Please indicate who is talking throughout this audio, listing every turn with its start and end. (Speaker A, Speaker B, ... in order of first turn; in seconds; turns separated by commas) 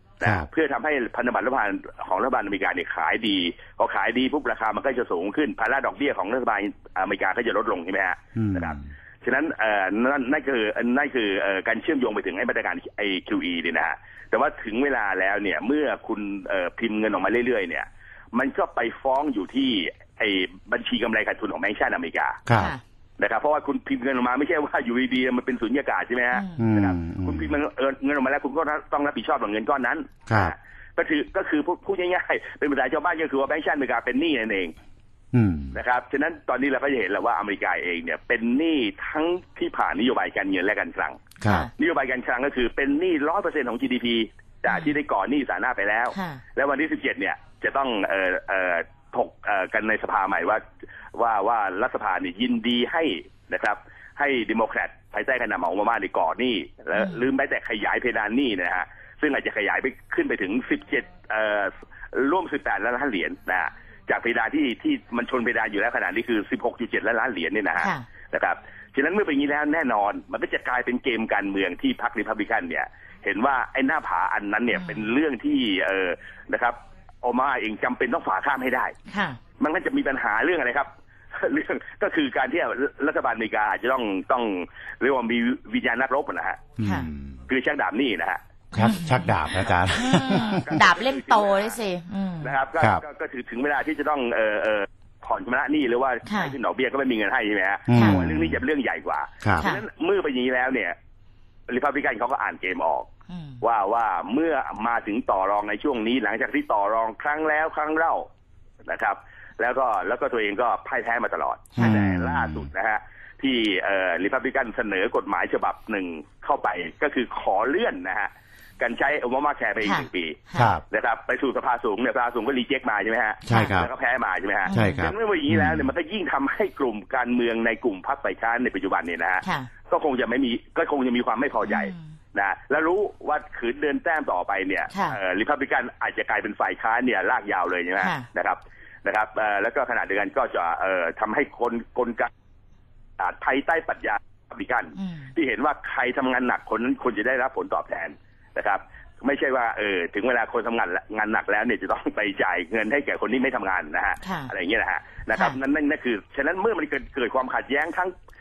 Speaker A: 0.2-22.4, Speaker B: 8.4-8.8, Speaker B: 22.5-22.7, Speaker C: 22.6-22.8, Speaker A: 23.2-34.7, Speaker C: 26.3-26.6, Speaker B: 26.6-27.5, Speaker B: 30.3-30.5, Speaker B: 35.3-35.8, Speaker A: 35.7-41.2, Speaker B: 41.4-41.7, Speaker C: 41.4-41.7, Speaker A: 41.8-50.6, Speaker C: 46.1-46.4, Speaker A: 51.1-79.0, Speaker C: 67.8-68.0, Speaker C: 74.7-75.0, Speaker C: 79.1-79.4, Speaker A: 79.6-80.9, Speaker A: 81.4-86.6, Speaker B: 86.8-87.4, Speaker C: 86.8-87.1, Speaker A: 87.5-88.4, Speaker B: 88.7-90.7, Speaker C: 88.8-89.3, Speaker C: 89.9-92.6, Speaker A: 90.1-91.8, Speaker A: 92.4-101.0, Speaker C: 96.3-96.6, Speaker B: 97.9-98.6, Speaker C: 97.9-98.2, Speaker A: 101.7-103.1, Speaker C: 103.3-103.6, Speaker A: 103.6-108.3, Speaker A: 108.9-142.3, Speaker B: 111.8-112.7, Speaker C: 119.8-120.7, Speaker B: 120.6-120.8, Speaker B: 123.5-123.9, Speaker C: 123.5-123.7, Speaker C: 124.7-125.1, Speaker B: 124.7-125.9, Speaker C: 129.4-129.7, Speaker C: 131.7-132.0, Speaker C: 134.9-135.2, Speaker C: 138.0-138.3, Speaker A: 143.2-158.1, Speaker C: 145.0-145.3, Speaker C: 154.2-154.5